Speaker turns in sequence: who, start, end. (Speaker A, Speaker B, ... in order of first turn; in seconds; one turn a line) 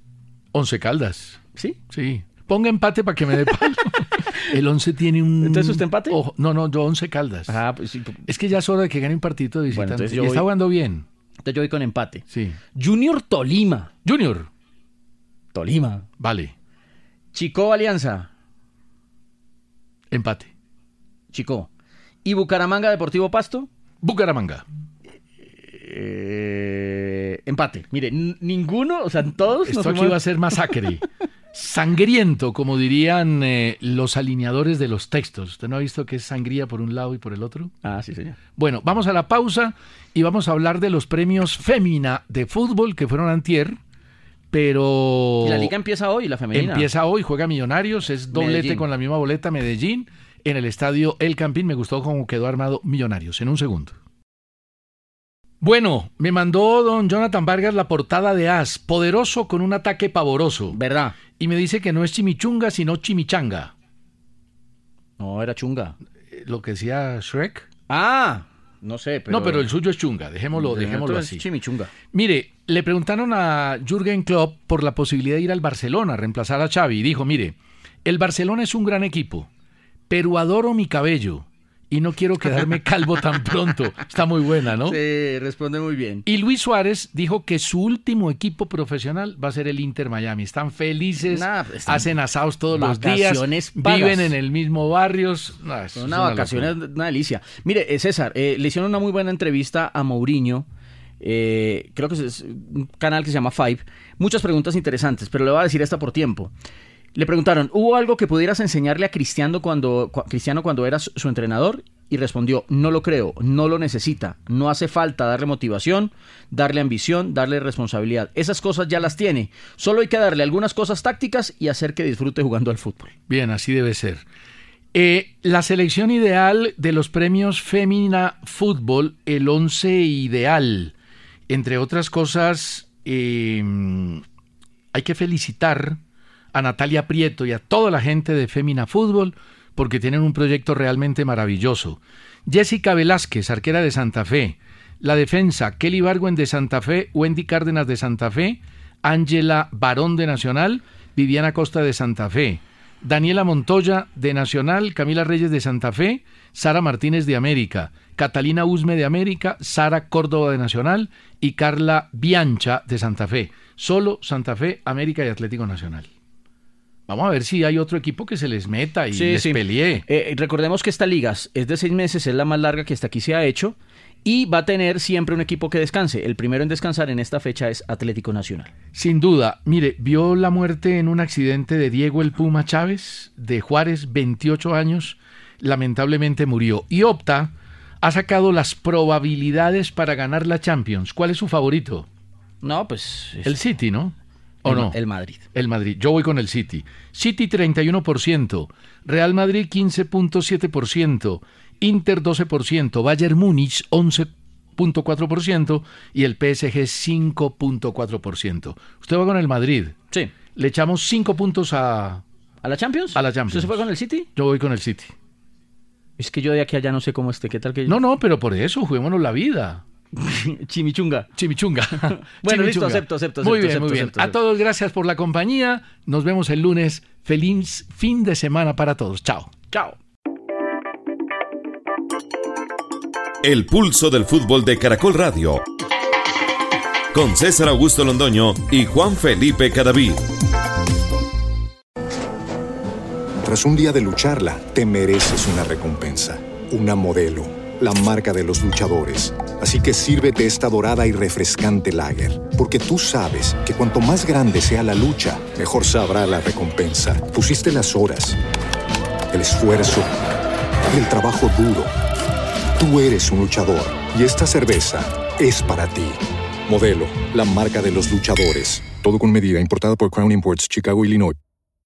Speaker A: 0.5-1.4
Speaker A: 1.9-7.6
Speaker B: 4.2-4.4
Speaker B: 5.4-6.2
Speaker B: 7.5-8.2
Speaker A: 8.2-11.1
Speaker B: 9.7-10.4
Speaker B: 11.4-12.2
Speaker A: 12.3-12.6
Speaker B: 12.7-13.9
Speaker A: 14.0-14.5
Speaker B: 15.5-16.1
Speaker A: 16.2-16.5
Speaker B: 17.3-18.3
Speaker A: 20.1-20.5
Speaker B: 21.3-21.7
Speaker B: 22.2-23.7
Speaker A: 24.0-24.6
Speaker B: 25.6-30.7
Speaker A: 29.6-37.7
Speaker B: 37.8-38.4
Speaker A: 38.5-43.8
Speaker A: 44.5-45.7
Speaker B: 45.4-46.9
Speaker A: 46.5-54.0
Speaker B: 48.3-48.8
Speaker A: 55.6-60.8
Speaker B: 60.7-61.2
Speaker A: 61.4-63.7
Speaker B: 65.2-66.0
Speaker A: 66.3-67.7
Speaker B: 67.9-69.7
Speaker A: 69.3-71.4
Speaker B: 70.5-71.9
Speaker A: 72.1-79.5
Speaker A: 80.1-85.0
Speaker B: 84.8-86.2
Speaker A: 86.2-96.7
Speaker B: 91.2-92.1
Speaker B: 92.7-94.3
Speaker B: 95.9-100.7
Speaker B: 101.2-106.5
Speaker B: 107.1-123.1
Speaker A: 123.3-124.2
Speaker A: 124.9-130.9
Speaker A: 131.5-134.2
Speaker A: 134.9-136.0
Speaker A: 136.5-166.1
Speaker A: 167.1-170.0
Speaker B: 169.1-178.7
Speaker A: 178.9-192.1
Speaker B: 192.6-193.6
Speaker A: 193.4-195.0
Speaker B: 194.6-195.4
Speaker A: 195.5-210.0
Speaker A: 210.5-212.2
Speaker B: 212.6-214.3
Speaker A: 213.1-215.1
Speaker B: 216.2-218.0
Speaker A: 217.8-219.8
Speaker B: 220.1-221.3
Speaker A: 221.3-229.5
Speaker B: 221.9-224.3
Speaker B: 229.7-230.0
Speaker C: 233.4-235.7
Speaker C: 237.1-240.3
Speaker D: 243.4-258.4
Speaker D: 259.3-260.1
Speaker D: 260.9-261.9
Speaker D: 262.8-271.4